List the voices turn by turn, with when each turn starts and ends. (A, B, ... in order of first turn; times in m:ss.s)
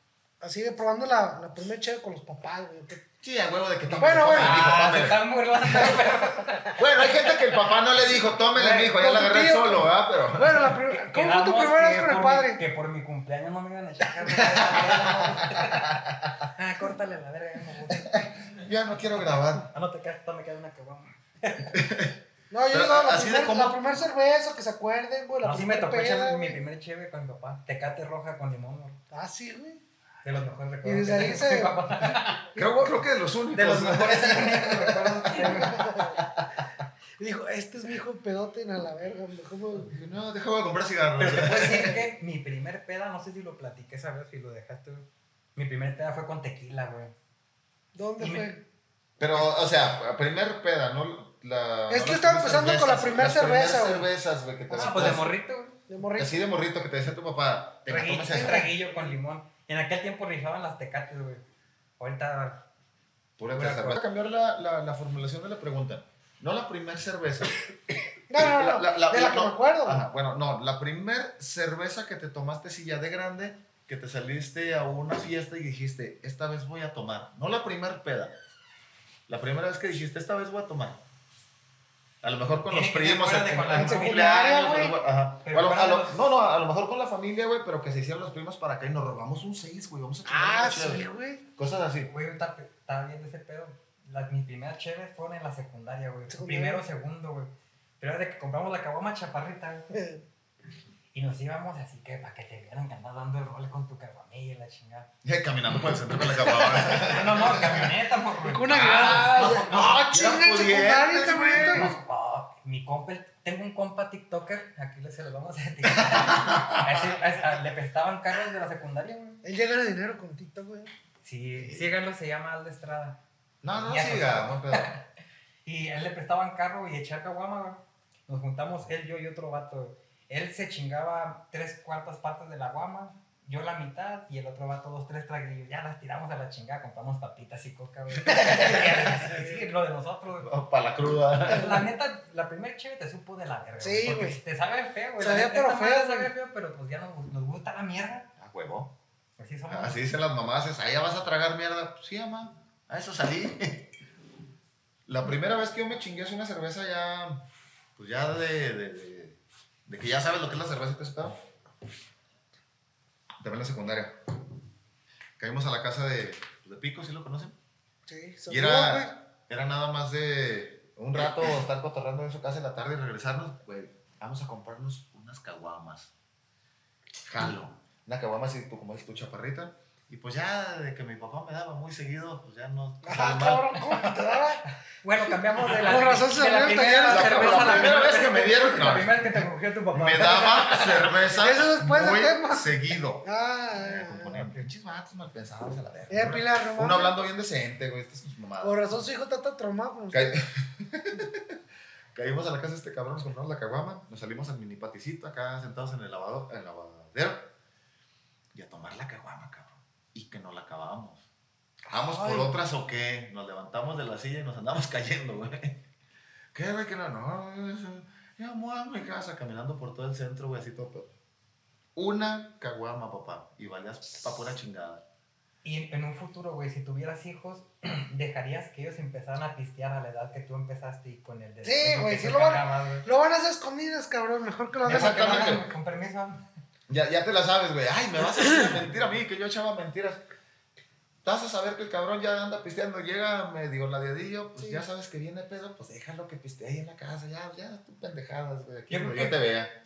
0:00.4-0:03.0 A
0:03.2-0:06.0 B
0:03.9-0:04.8 A
0:04.2-0:06.8 C
0:06.8-0:10.8 B
0:08.6-0:12.6 A
0:10.9-0:16.0 C
0:14.4-0:16.4 B
0:16.5-0:18.3 C
0:17.9-0:19.7 B
0:19.7-0:21.8 C
0:21.7-0:22.2 B
0:22.5-0:26.6 A
0:22.7-0:23.8 B
0:25.4-0:29.0 C
0:29.1-0:29.8 A
0:30.2-0:32.5 C
0:30.8-0:31.9 A
0:32.5-0:32.8 A
0:32.5-0:35.4 B
0:33.5-0:35.9 C
0:35.3-0:36.2 A
0:36.2-0:36.5 B
0:37.2-0:39.9 A
0:39.8-0:42.0 B
0:41.2-0:47.1 C
0:47.9-0:48.6 A
0:48.2-0:48.5 C
0:49.2-0:55.3 B
0:51.9-0:54.1 A
0:54.7-0:55.2 A
0:54.7-0:55.7 C
0:55.9-0:56.4 A
0:56.2-0:58.6 B
0:57.9-1:01.4 C
0:58.2-0:59.1 A
1:02.0-1:02.6 C
1:03.4-1:18.3 B
1:03.5-1:04.0 C
1:08.3-1:10.0 A
1:19.3-1:21.0 B
1:22.2-1:32.1 B
1:22.7-1:24.3 C
1:23.7-1:25.0 A
1:25.4-1:26.2 C
1:30.2-1:31.4 A
1:32.1-1:39.9 C
1:36.3-1:36.8 A
1:39.9-1:40.2 A
1:41.1-1:45.1 C
1:45.2-1:47.9 B
1:46.7-1:47.1 A
1:46.9-1:50.0 C
1:48.4-1:51.9 A
1:48.7-1:51.9 B
1:51.6-1:59.4 C
1:55.8-1:57.1 B
1:59.4-2:00.9 A
2:01.2-2:03.2 C
2:01.5-2:01.9 B
2:03.6-2:04.9 B
2:03.7-2:05.0 C
2:05.6-2:20.5 C
2:18.3-2:19.5 A
2:20.4-2:21.8 B
2:21.4-2:28.3 C
2:23.8-2:24.4 A
2:25.2-2:26.3 A
2:28.4-2:28.9 B
2:29.4-2:30.0 C
2:29.7-2:33.9 B
2:35.0-2:37.4 B
2:38.0-2:41.4 B
2:43.4-2:44.2 B
2:45.4-2:47.5 B
2:48.1-2:49.1 A
2:48.5-2:56.1 B
2:57.2-3:03.8 B
3:03.0-3:04.6 A
3:05.0-3:11.0 C
3:05.6-3:08.4 A
3:07.1-3:18.8 B
3:11.4-3:14.4 A
3:16.1-3:17.1 A
3:18.6-3:20.4 A
3:20.1-3:21.6 B
3:22.1-3:27.5 B
3:28.5-3:31.3 B
3:31.9-3:35.8 B
3:31.9-3:32.5 A
3:36.5-3:41.1 B
3:41.9-3:45.0 B
3:45.6-3:53.0 C
3:51.6-3:55.5 A
3:54.8-3:55.7 B
3:54.9-3:56.4 C
3:56.9-4:00.2 B
4:01.2-4:09.7 B
4:04.6-4:04.8 A
4:08.9-4:09.4 C